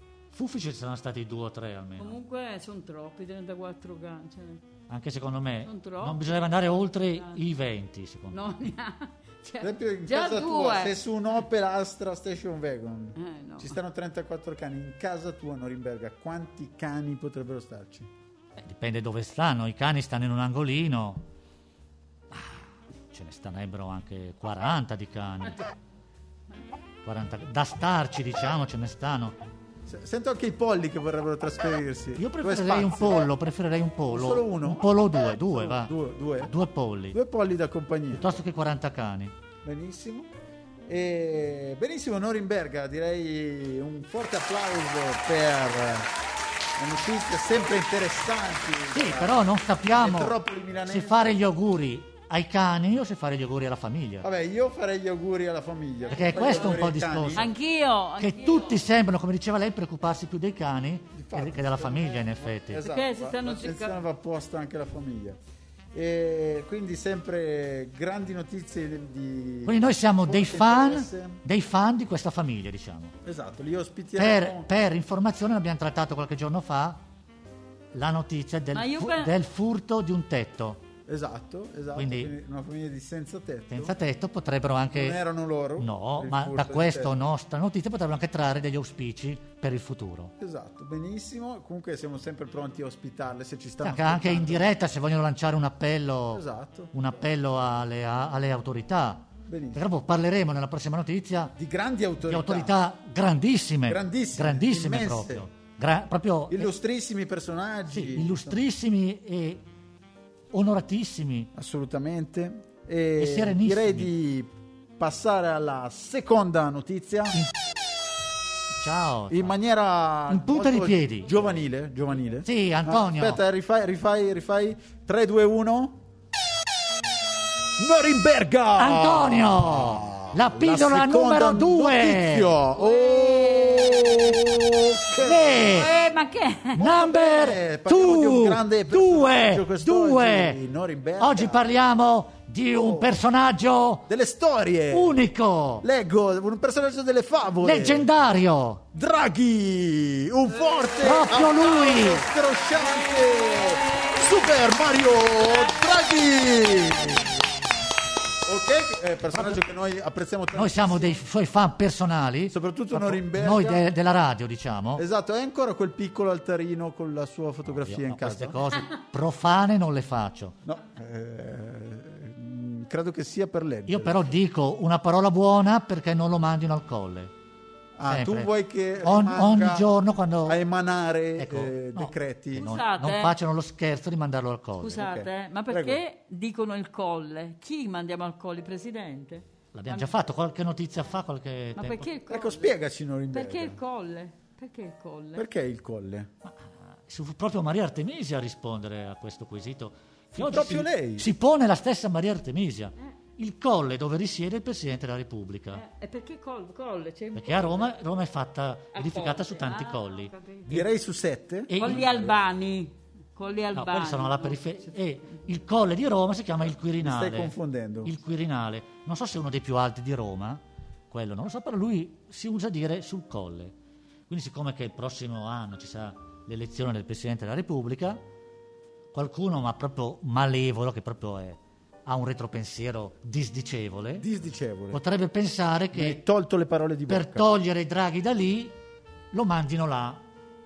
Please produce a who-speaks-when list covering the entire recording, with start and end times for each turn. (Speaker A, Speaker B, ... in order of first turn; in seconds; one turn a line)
Speaker A: 0.3-2.2
Speaker B: 2.0-4.6
Speaker A: 4.9-8.5
Speaker B: 5.6-6.4
Speaker B: 7.1-7.4
Speaker B: 8.3-11.0
Speaker C: 9.6-18.1
Speaker B: 13.2-13.8
Speaker A: 18.6-21.2
Speaker A: 22.3-25.7
Speaker A: 27.0-29.4
Speaker C: 29.9-33.3
Speaker A: 32.1-37.1
Speaker C: 34.1-36.5
Speaker C: 37.1-38.4
Speaker A: 38.1-39.3
Speaker C: 39.6-40.3
Speaker C: 40.9-46.1
Speaker C: 46.8-51.4
Speaker A: 48.9-54.3
Speaker C: 54.2-57.5
Speaker A: 56.1-57.5
Speaker B: 56.3-56.8
Speaker B: 57.3-58.8
Speaker A: 58.2-62.8
Speaker C: 61.1-65.4
Speaker B: 62.8-64.0
Speaker C: 65.9-71.4
Speaker A: 69.7-73.1
Speaker C: 73.2-74.7
Speaker A: 74.2-77.0
Speaker A: 77.9-80.8
Speaker B: 78.7-79.3
Speaker C: 81.1-83.9
Speaker A: 81.9-82.3
Speaker A: 83.7-85.2
Speaker C: 84.9-87.2
Speaker A: 85.8-90.3
Speaker C: 90.4-94.7
Speaker A: 93.8-101.5
Speaker C: 96.3-96.9
Speaker C: 99.5-99.8
Speaker C: 101.6-102.7
Speaker A: 102.2-106.7
Speaker C: 103.9-105.5
Speaker C: 106.5-108.6
Speaker A: 107.9-109.6
Speaker A: 110.5-111.5
Speaker C: 111.5-117.4
Speaker A: 113.2-114.1
Speaker A: 118.7-119.5
Speaker C: 119.3-126.0
Speaker A: 120.3-121.6
Speaker A: 122.4-123.4
Speaker C: 127.8-135.8
Speaker A: 128.8-132.5
Speaker B: 132.7-134.5
Speaker A: 135.2-135.9
Speaker B: 135.6-136.9
Speaker A: 136.7-140.6
Speaker C: 136.8-141.7
Speaker A: 141.2-144.1
Speaker C: 142.8-143.2
Speaker C: 144.1-145.2
Speaker A: 144.9-145.8
Speaker C: 145.8-148.1
Speaker A: 147.6-148.8
Speaker C: 148.9-157.4
Speaker B: 150.7-152.1
Speaker A: 151.0-152.2
Speaker B: 152.7-154.5
Speaker B: 155.3-155.7
Speaker C: 158.5-161.2
Speaker A: 159.3-159.6
Speaker A: 160.5-165.0
Speaker C: 162.5-163.9
Speaker C: 165.0-168.6
Speaker A: 167.6-170.6
Speaker C: 170.6-174.3
Speaker A: 173.9-177.3
Speaker C: 178.0-179.9
Speaker A: 178.1-180.6
Speaker C: 180.4-182.7
Speaker A: 181.4-185.1
Speaker B: 182.6-183.3
Speaker B: 184.8-190.2
Speaker C: 185.0-186.0
Speaker A: 189.7-192.1
Speaker B: 191.8-192.8
Speaker C: 192.3-193.8
Speaker B: 193.3-195.4
Speaker C: 195.3-196.3
Speaker A: 196.4-205.8
Speaker C: 200.3-201.3
Speaker B: 205.7-207.9
Speaker A: 207.3-210.9
Speaker B: 208.9-210.7
Speaker C: 210.7-212.3
Speaker A: 211.7-212.1
Speaker B: 211.8-214.9
Speaker A: 213.7-223.8
Speaker C: 217.0-218.1
Speaker A: 224.3-228.2
Speaker A: 229.1-234.3
Speaker C: 234.2-235.0
Speaker A: 234.9-236.2
Speaker C: 235.9-237.4
Speaker A: 237.1-238.7
Speaker A: 239.3-240.2